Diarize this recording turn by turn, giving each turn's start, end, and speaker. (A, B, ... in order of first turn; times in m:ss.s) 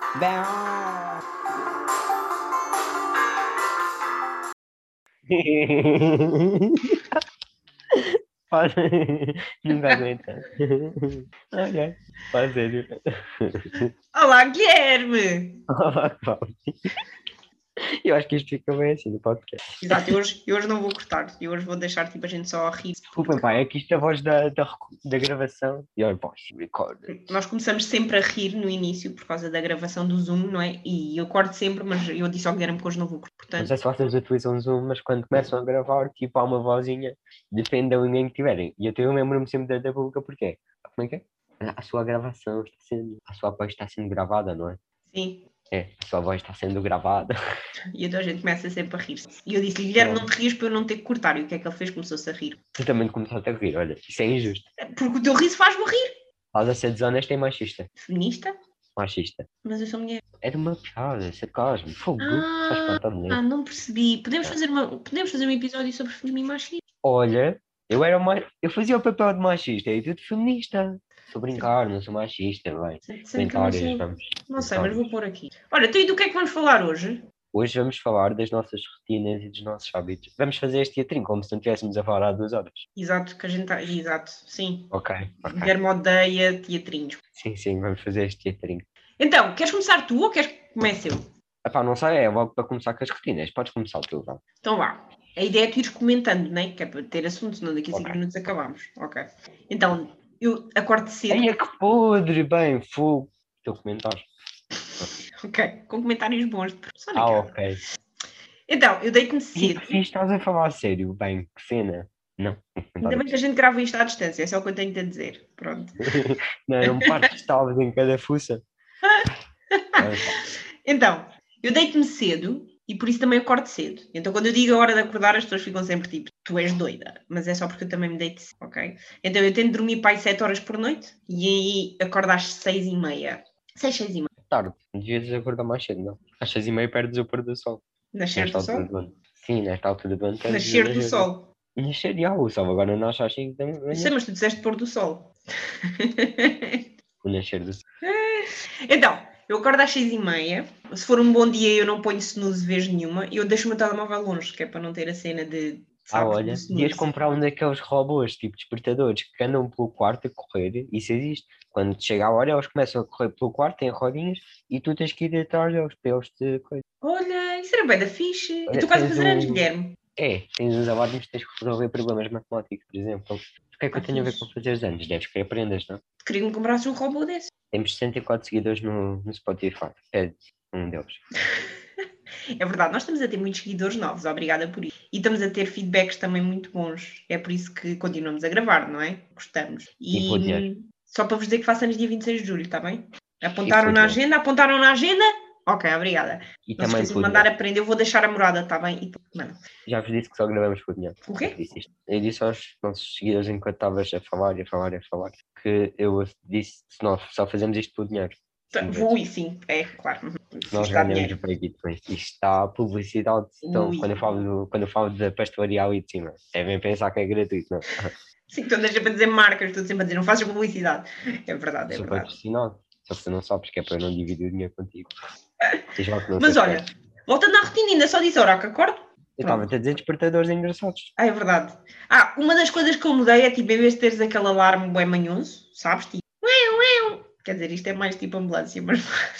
0:00.2-0:01.2 A
0:05.3-0:07.2 B
0:07.9-0:13.9 B
0:14.1-0:15.6 A
0:15.7-0:16.8 B
0:18.0-0:20.1 B
0:19.8-0:23.5 A
0:23.2-0:27.3 B
0:27.1-0:33.7 A
0:33.6-0:44.8 B
0:45.1-0:45.4 A
0:45.7-0:47.3 B
0:47.9-0:52.6 A
0:50.0-0:50.3 B
0:52.8-0:54.6 B
0:54.8-0:56.1 A
0:56.5-0:57.9 B
0:58.0-0:58.5 A
0:59.0-0:59.5 B
0:59.6-1:00.2 A
1:00.4-1:03.4 B
1:02.2-1:06.8 A
1:07.0-1:15.1 B
1:13.0-1:17.2 A
1:17.5-1:22.8 B
1:23.0-1:24.9 A
1:24.9-1:25.7 B
1:25.5-1:27.2 A
1:27.3-1:28.8 B
1:29.2-1:31.2 A
1:31.6-1:34.4 B
1:34.6-1:41.5 A
1:37.9-1:38.2 B
1:41.3-1:44.3 B
1:45.4-1:47.6 A
1:47.1-1:47.8 B
1:48.7-1:50.0 A
1:49.5-1:53.3 B
1:53.0-1:55.9 A
1:56.0-1:58.6 B
1:56.8-1:57.2 A
1:59.1-2:14.3 A
2:00.0-2:00.4 B
2:14.5-2:17.8 B
2:18.1-2:18.9 A
2:18.4-2:24.1 B
2:20.5-2:21.5 A
2:23.9-2:25.3 A
2:26.0-2:26.8 A
2:27.2-2:27.8 B
2:28.0-2:37.1 A
2:36.1-2:46.8 B
2:47.0-2:50.0 A
2:48.7-2:49.6 B
2:50.2-2:56.0 B
2:53.9-2:54.4 A
2:56.2-2:57.5 A
2:57.7-3:01.2 B
3:02.6-3:19.6 A
3:10.1-3:10.7 B
3:13.6-3:14.2 B
3:16.7-3:17.5 B
3:19.8-3:29.1 B
3:21.2-3:21.6 A
3:28.7-3:31.4 A
3:30.7-3:38.1 B
3:33.6-3:34.4 A
3:38.5-3:42.4 A
3:41.9-3:45.2 B
3:46.0-3:46.8 B
3:46.4-3:49.7 A
3:49.4-3:51.1 B
3:51.2-3:59.0 A